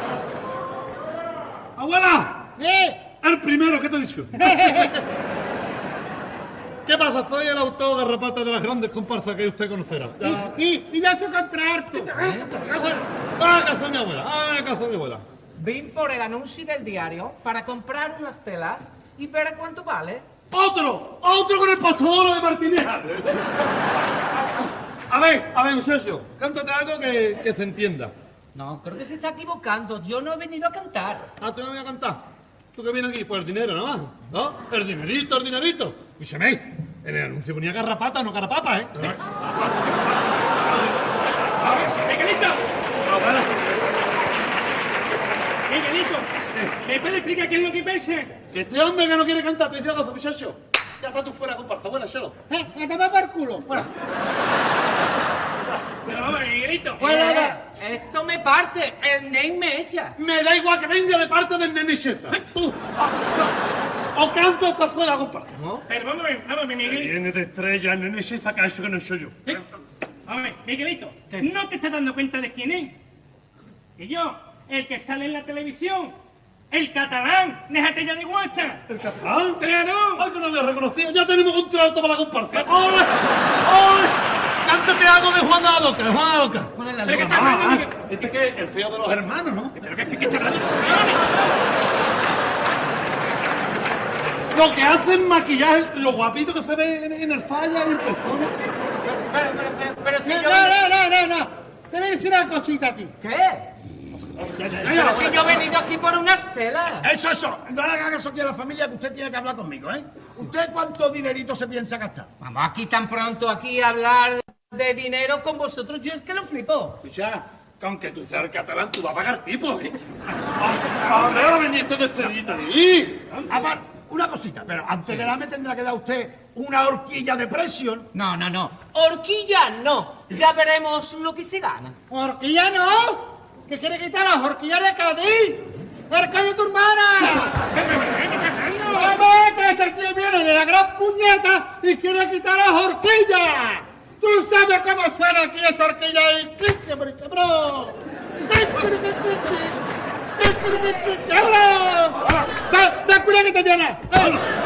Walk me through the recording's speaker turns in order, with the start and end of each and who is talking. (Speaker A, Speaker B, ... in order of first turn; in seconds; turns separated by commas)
Speaker A: 1.8-2.5, Speaker B: 2.6-3.0, Speaker A: 3.2-5.0, Speaker B: 4.5-4.9, Speaker A: 6.9-10.5, Speaker B: 10.2-12.2, Speaker A: 11.9-15.2, Speaker C: 12.2-12.5, Speaker C: 15.6-20.2, Speaker A: 20.5-23.5, Speaker A: 25.1-28.1, Speaker C: 28.6-31.3, Speaker A: 31.4-32.2, Speaker A: 32.7-42.0, Speaker D: 41.7-42.7, Speaker A: 43.0-43.8, Speaker D: 45.7-46.3, Speaker D: 46.8-48.3, Speaker A: 48.5-52.4, Speaker B: 52.5-53.7, Speaker D: 56.0-57.2, Speaker C: 57.0-60.2, Speaker B: 57.0-57.6, Speaker A: 60.2-63.5, Speaker A: 64.1-65.6, Speaker C: 65.6-65.8, Speaker D: 65.9-67.1, Speaker A: 66.8-69.4, Speaker D: 70.3-73.0, Speaker D: 74.0-76.2, Speaker D: 76.7-78.8, Speaker A: 78.9-79.7, Speaker D: 79.6-80.2, Speaker A: 80.2-89.8, Speaker C: 86.7-87.6, Speaker D: 87.0-88.2, Speaker D: 89.8-91.6, Speaker A: 94.5-98.6, Speaker C: 99.0-100.8, Speaker B: 100.2-103.1, Speaker C: 103.2-103.7, Speaker E: 104.5-105.5, Speaker A: 104.8-105.6, Speaker C: 104.9-107.1, Speaker E: 107.0-112.3, Speaker C: 112.4-117.0, Speaker A: 117.0-120.0, Speaker A: 120.6-123.2, Speaker E: 120.9-121.5, Speaker E: 123.5-128.1, Speaker C: 128.1-132.0, Speaker B: 132.1-137.6, Speaker D: 137.4-139.2, Speaker B: 138.8-149.8, Speaker B: 150.4-154.5, Speaker A: 154.2-154.5